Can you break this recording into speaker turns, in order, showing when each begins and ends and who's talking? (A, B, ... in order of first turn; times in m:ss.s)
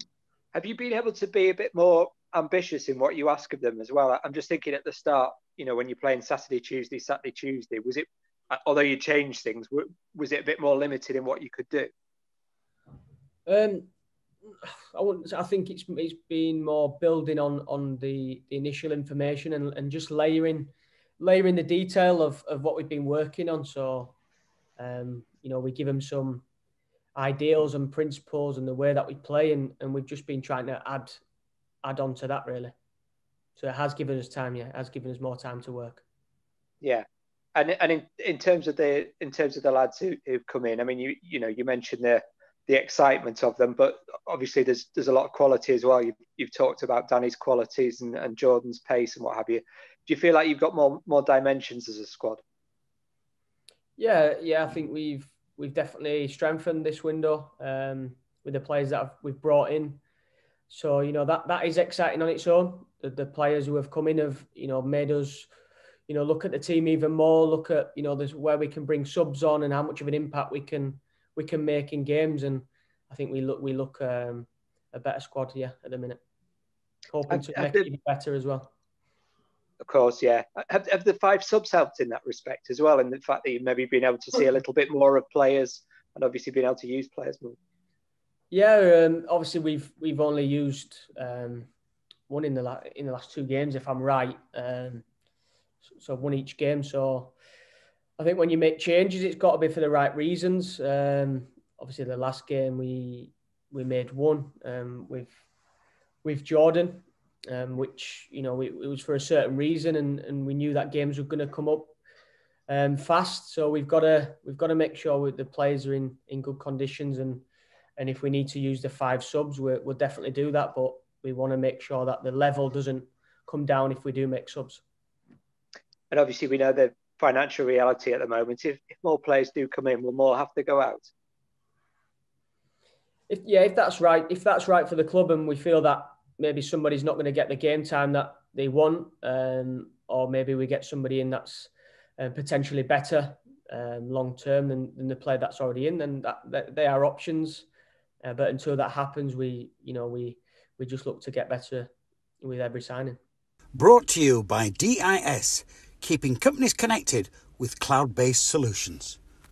0:00.5-0:11.9 A
0:13.4-0:13.9 B
0:14.6-0:24.1 B
0:24.8-0:26.4 B
0:27.2-0:31.2 B
0:31.8-0:32.7 B
0:33.6-0:36.0 B
0:36.8-0:52.4 A
0:54.0-1:00.0 B
1:00.7-1:05.5 B
1:06.1-1:16.2 B
1:17.1-1:18.7 B
1:17.4-1:17.8 A
1:19.8-1:27.6 A
1:28.5-1:31.7 B
1:32.3-1:35.0 B
1:36.0-1:37.3 B
1:38.2-1:45.4 B
1:46.2-1:51.9 B
1:52.7-1:57.4 B
1:58.0-2:04.8 B
2:06.1-2:11.1 A
2:13.3-2:27.6 B
2:28.2-2:31.9 B
2:32.4-2:33.2 B
2:33.7-2:39.2 C